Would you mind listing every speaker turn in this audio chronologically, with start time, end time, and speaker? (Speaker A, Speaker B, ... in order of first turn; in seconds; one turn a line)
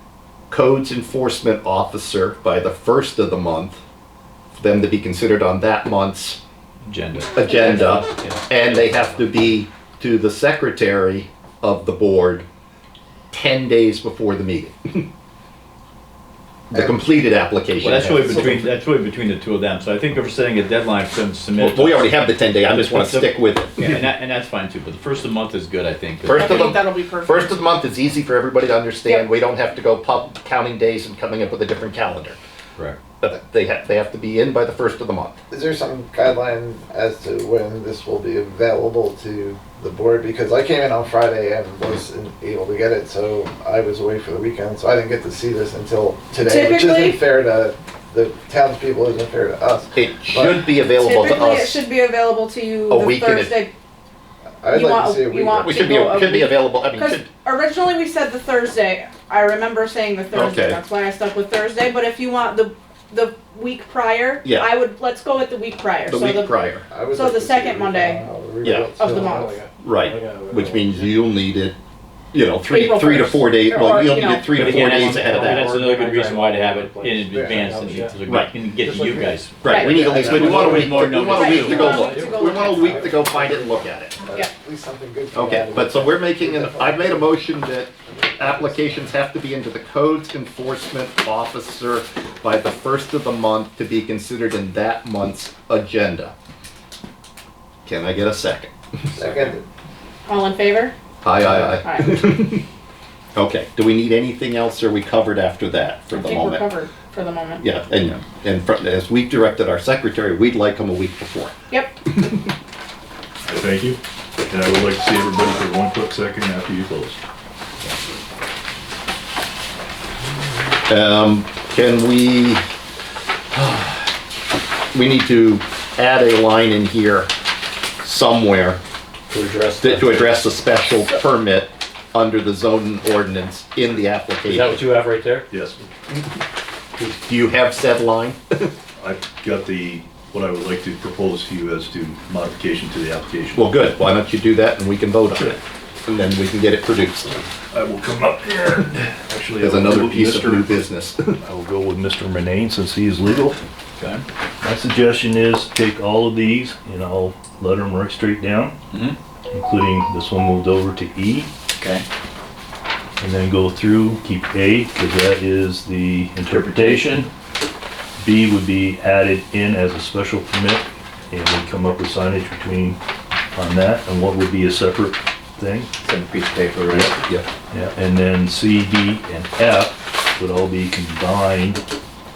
Speaker A: 0.5-3.8
Speaker A: 4.6-6.4
Speaker B: 6.8-8.9
Speaker A: 7.3-12.4
Speaker A: 13.3-15.1
Speaker A: 16.7-18.7
Speaker B: 17.8-26.7
Speaker A: 21.6-24.0
Speaker A: 26.2-32.4
Speaker C: 26.3-27.5
Speaker C: 29.1-29.3
Speaker A: 33.2-35.4
Speaker D: 35.5-50.6
Speaker C: 46.4-47.2
Speaker A: 49.9-51.8
Speaker C: 51.0-53.7
Speaker A: 52.9-53.6
Speaker D: 54.6-55.5
Speaker A: 54.7-57.3
Speaker C: 54.7-66.6
Speaker A: 60.3-60.8
Speaker A: 64.4-64.7
Speaker A: 66.1-66.8
Speaker D: 66.9-69.6
Speaker C: 67.1-68.2
Speaker A: 68.6-68.9
Speaker C: 69.0-69.5
Speaker E: 69.1-71.2
Speaker A: 69.8-71.8
Speaker A: 72.3-75.7
Speaker C: 72.7-74.8
Speaker B: 74.5-79.5
Speaker E: 74.8-78.2
Speaker D: 77.3-77.6
Speaker E: 78.8-79.5
Speaker A: 79.6-84.2
Speaker C: 79.7-80.1
Speaker D: 79.8-81.2
Speaker B: 80.0-82.0
Speaker C: 81.3-83.0
Speaker E: 81.6-82.4
Speaker D: 81.8-87.4
Speaker A: 85.3-96.3
Speaker D: 88.0-89.1
Speaker A: 97.8-99.5
Speaker D: 99.2-99.6
Speaker C: 100.2-100.9
Speaker A: 101.2-102.6
Speaker C: 101.6-102.3
Speaker A: 103.3-106.7
Speaker C: 106.1-107.6
Speaker A: 107.6-111.5
Speaker C: 111.7-112.0
Speaker F: 113.4-117.2
Speaker A: 120.9-122.6
Speaker A: 123.5-123.9
Speaker A: 124.9-127.3
Speaker A: 128.0-128.8
Speaker E: 129.3-130.1
Speaker A: 129.8-135.0
Speaker E: 134.4-135.5
Speaker F: 135.5-135.8
Speaker A: 137.0-138.7
Speaker F: 139.0-143.7
Speaker A: 143.5-147.4
Speaker F: 147.7-150.8
Speaker A: 149.6-151.4
Speaker F: 151.4-153.6
Speaker B: 154.0-154.2
Speaker F: 154.6-158.8
Speaker B: 158.9-159.2
Speaker F: 159.5-161.5
Speaker B: 161.8-162.0
Speaker F: 163.2-167.3
Speaker B: 166.5-167.3
Speaker F: 168.2-173.0
Speaker F: 173.5-175.9
Speaker B: 176.0-177.2
Speaker F: 176.9-177.1
Speaker F: 177.7-181.8